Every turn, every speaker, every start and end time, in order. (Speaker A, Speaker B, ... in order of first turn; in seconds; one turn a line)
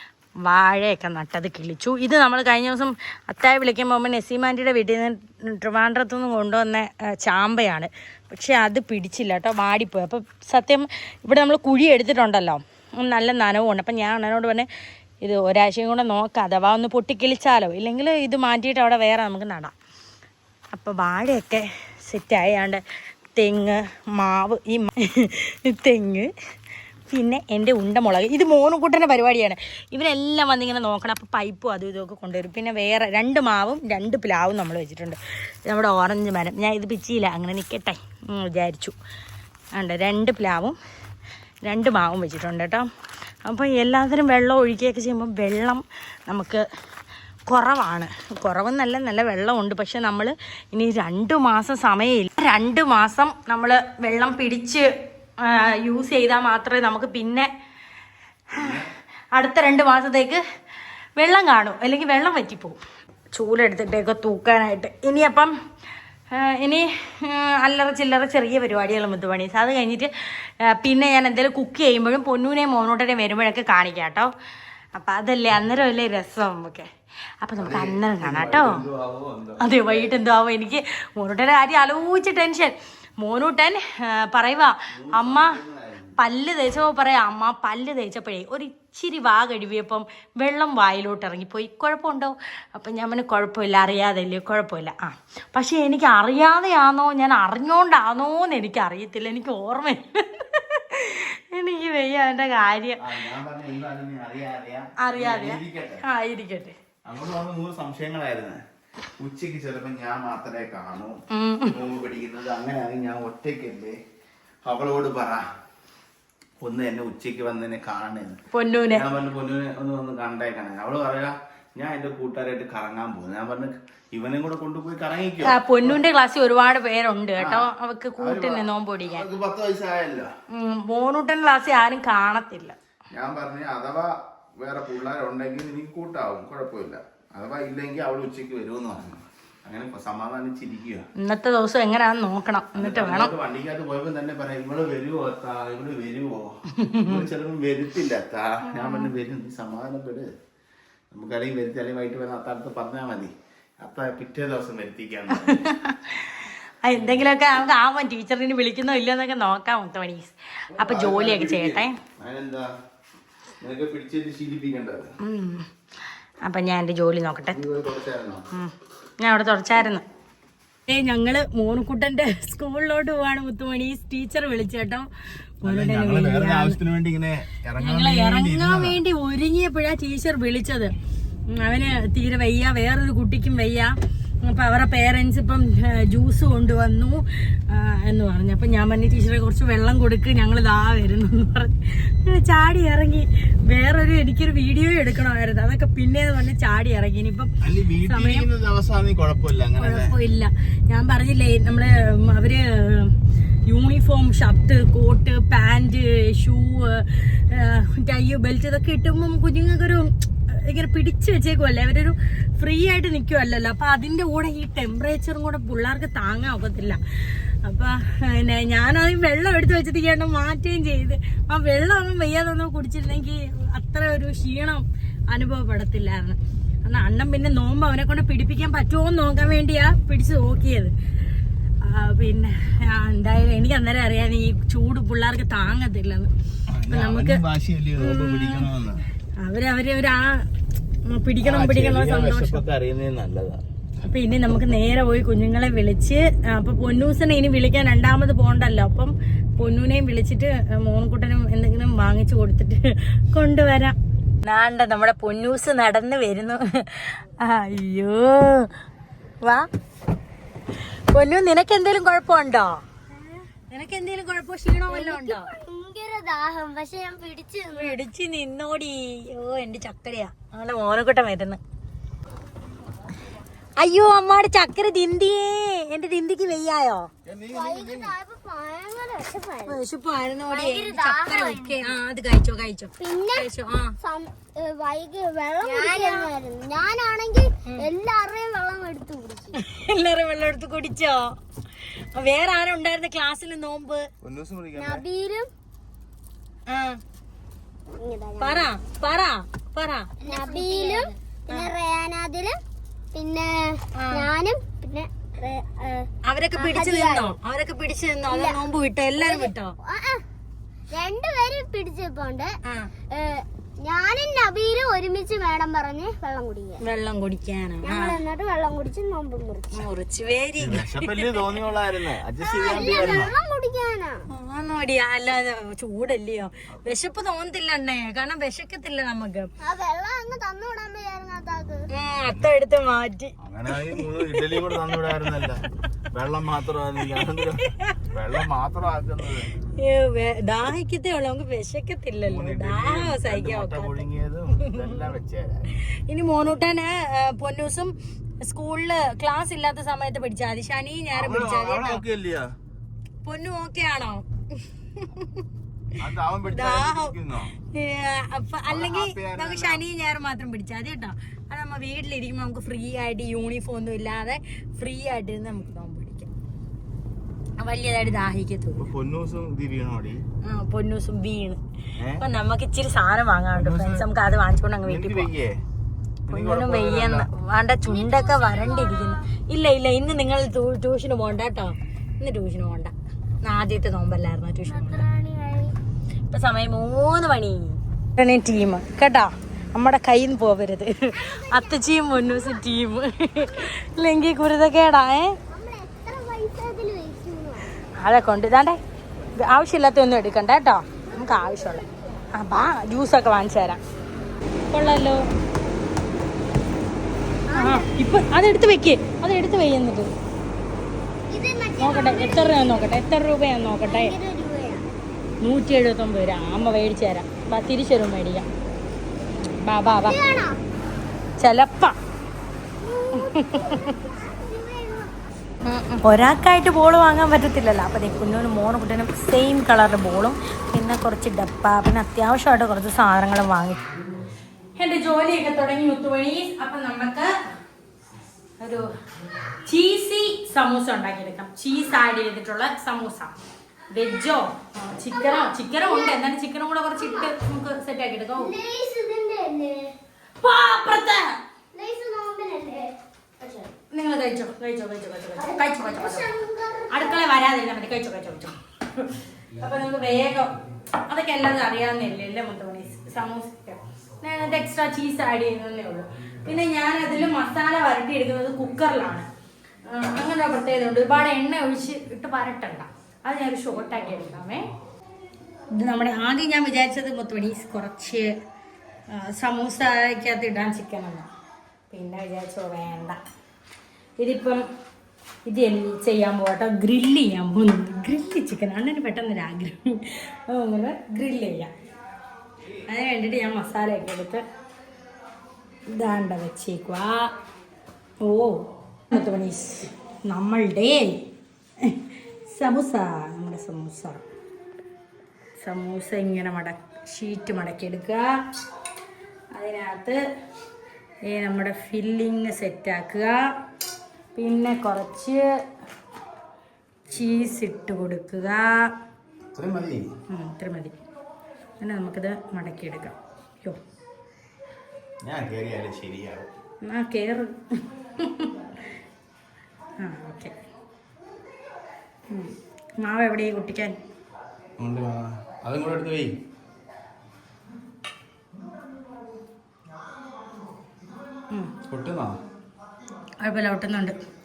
Speaker A: 0.4-14.7
Speaker A: 15.2-19.7
Speaker A: 20.7-22.8
Speaker A: 23.4-26.3
Speaker A: 27.1-38.9
Speaker A: 39.8-40.8
Speaker A: 41.6-42.9
Speaker A: 43.5-46.6
Speaker A: 47.5-54.9
Speaker A: 55.4-57.5
Speaker A: 58.5-58.8
Speaker B: 58.6-58.9
Speaker A: 59.3-60.4
Speaker A: 61.2-62.8
Speaker A: 63.3-65.5
Speaker A: 66.3-74.3
Speaker A: 74.9-76.9
Speaker A: 77.4-78.8
Speaker B: 77.6-80.3
Speaker A: 79.6-85.6
Speaker B: 84.9-86.1
Speaker A: 86.2-103.0
Speaker B: 103.0-106.0
Speaker A: 105.0-106.8
Speaker B: 107.1-108.6
Speaker B: 109.2-111.2
Speaker A: 111.3-111.8
Speaker B: 111.7-114.0
Speaker B: 114.6-115.4
Speaker B: 116.6-118.4
Speaker A: 118.5-119.0
Speaker B: 118.9-126.0
Speaker A: 125.4-129.2
Speaker B: 127.4-130.3
Speaker A: 130.5-132.8
Speaker B: 133.1-141.1
Speaker A: 141.2-143.3
Speaker B: 142.8-150.3
Speaker A: 146.8-147.2
Speaker A: 148.7-149.1
Speaker B: 151.1-155.6
Speaker A: 155.3-162.0
Speaker B: 160.7-162.7
Speaker B: 163.6-165.1
Speaker A: 165.2-165.7
Speaker A: 166.4-167.6
Speaker B: 167.5-168.5
Speaker A: 168.5-170.0
Speaker A: 170.9-175.1
Speaker A: 175.6-176.8
Speaker B: 175.6-179.0
Speaker A: 177.8-180.9
Speaker A: 181.5-198.5
Speaker B: 197.6-200.1
Speaker A: 199.8-203.1
Speaker A: 203.7-230.9
Speaker A: 231.8-236.3
Speaker B: 236.7-239.0
Speaker A: 236.9-237.4
Speaker A: 238.0-238.7
Speaker A: 239.4-240.5
Speaker A: 241.1-242.6
Speaker B: 241.4-243.6
Speaker A: 244.1-258.7
Speaker A: 259.4-259.7
Speaker A: 261.1-262.8
Speaker A: 263.7-265.5
Speaker C: 264.9-268.0
Speaker A: 267.8-271.6
Speaker A: 273.8-277.1
Speaker B: 277.2-278.1
Speaker C: 277.5-279.8
Speaker A: 279.6-283.9
Speaker C: 280.5-281.9
Speaker C: 283.0-283.5
Speaker C: 284.0-289.6
Speaker A: 285.6-286.3
Speaker A: 289.6-291.4
Speaker A: 291.9-294.1
Speaker B: 294.2-295.1
Speaker C: 294.8-295.5
Speaker A: 296.7-297.0
Speaker C: 298.0-298.7
Speaker A: 298.4-301.7
Speaker C: 300.2-302.6
Speaker C: 303.1-307.3
Speaker A: 303.9-304.3
Speaker A: 306.2-309.8
Speaker C: 308.3-308.6
Speaker C: 309.2-310.2
Speaker C: 310.9-312.6
Speaker C: 313.1-316.8
Speaker A: 316.8-318.2
Speaker C: 317.8-319.9
Speaker A: 319.7-321.3
Speaker B: 320.6-323.3
Speaker C: 322.4-324.2
Speaker A: 324.3-329.5
Speaker C: 329.6-331.9
Speaker A: 331.9-334.8
Speaker B: 333.4-339.5
Speaker A: 337.1-338.1
Speaker A: 339.8-344.9
Speaker B: 342.2-345.8
Speaker A: 345.9-352.0
Speaker B: 351.1-352.5
Speaker A: 353.2-355.4
Speaker B: 356.0-357.5
Speaker A: 356.4-366.3
Speaker B: 358.7-359.8
Speaker A: 367.6-368.9
Speaker B: 368.8-370.2
Speaker A: 370.4-371.6
Speaker B: 372.0-372.2
Speaker A: 372.2-375.3
Speaker B: 373.5-374.1
Speaker B: 374.8-375.6
Speaker A: 376.3-385.1
Speaker B: 376.3-377.3
Speaker C: 377.9-379.2
Speaker C: 384.6-385.8
Speaker A: 386.3-395.4
Speaker C: 391.1-392.6
Speaker C: 395.5-397.7
Speaker A: 398.0-398.8
Speaker A: 399.4-403.8
Speaker C: 401.1-402.2
Speaker A: 404.7-405.2
Speaker C: 407.5-407.9
Speaker A: 407.5-410.1
Speaker C: 411.3-412.9
Speaker A: 411.8-414.1
Speaker C: 413.9-414.9
Speaker A: 415.4-418.5
Speaker A: 419.6-420.2
Speaker C: 419.9-420.6
Speaker A: 421.4-421.9
Speaker C: 422.8-425.1
Speaker A: 423.1-423.9
Speaker A: 425.6-433.9
Speaker A: 434.8-437.3
Speaker A: 438.6-438.9
Speaker A: 439.6-443.3
Speaker A: 443.9-448.5
Speaker C: 445.1-446.2
Speaker C: 447.0-447.3
Speaker C: 448.4-449.9
Speaker A: 450.4-451.4
Speaker C: 451.7-453.7
Speaker A: 453.9-456.3
Speaker C: 455.4-457.3
Speaker A: 456.9-460.5
Speaker A: 461.1-469.3
Speaker A: 469.9-474.7
Speaker A: 475.8-478.3
Speaker A: 479.1-481.3
Speaker A: 481.9-483.2
Speaker A: 484.2-484.6
Speaker A: 485.4-491.7
Speaker A: 492.9-494.4
Speaker A: 495.9-497.3
Speaker A: 498.2-501.2
Speaker A: 501.8-504.2
Speaker A: 505.6-508.3
Speaker A: 509.5-510.2
Speaker A: 511.3-513.4
Speaker A: 514.4-515.5
Speaker A: 517.1-518.9
Speaker B: 519.5-520.0
Speaker A: 520.3-521.0
Speaker A: 521.8-523.8
Speaker B: 525.2-526.5
Speaker A: 526.8-528.6
Speaker A: 530.0-530.6
Speaker A: 532.3-534.0
Speaker B: 534.8-536.3
Speaker B: 541.9-542.4
Speaker A: 543.4-544.2